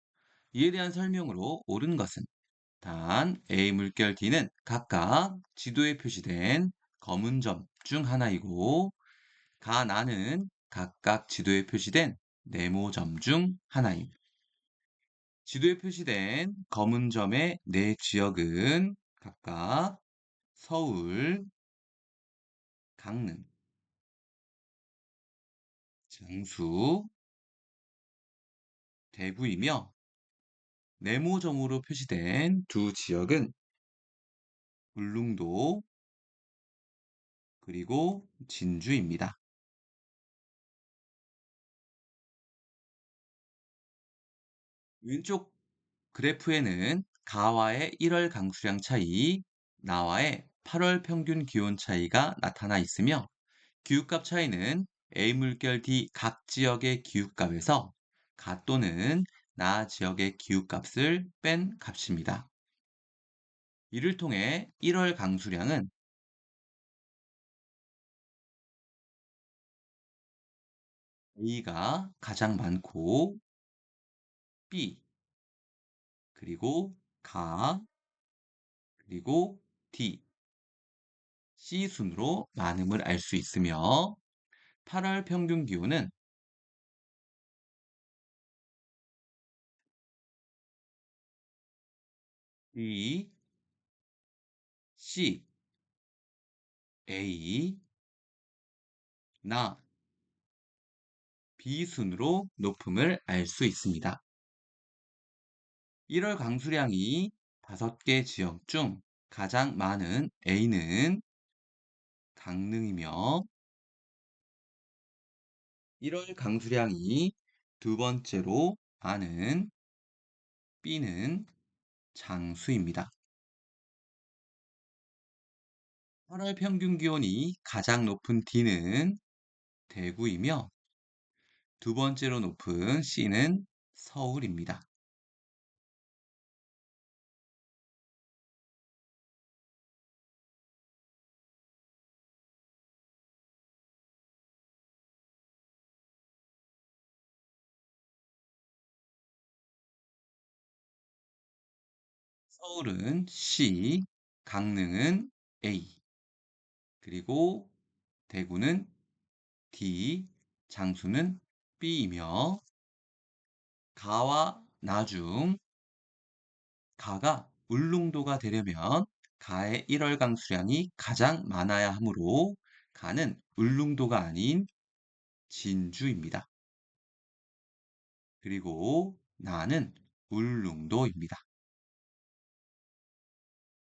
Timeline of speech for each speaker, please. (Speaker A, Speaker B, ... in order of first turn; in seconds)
Speaker A: 0.5-2.3, 2.8-9.0, 9.6-14.1, 15.4-20.0, 20.6-21.5, 23.0-23.5, 26.1-27.1, 29.1-29.9, 31.0-33.5, 35.0-35.9, 37.6-39.4, 45.0-45.5, 46.1-53.3, 53.8-62.5, 63.9-65.9, 71.4-73.4, 74.7-75.0, 76.3-77.9, 79.0-80.2, 81.6-84.2, 84.8-86.1, 92.7-93.3, 95.0-95.5, 97.1-97.8, 99.4-99.8, 101.6-104.2, 106.1-111.2, 112.4-113.5, 116.0-119.7, 120.8-121.5, 122.1-123.1, 126.3-129.2, 129.9-130.7, 131.8-134.9, 152.5-156.0, 157.0-157.7, 158.3-158.9, 159.7-162.6, 164.0-165.6, 167.0-174.7, 175.5-176.5, 178.4-181.4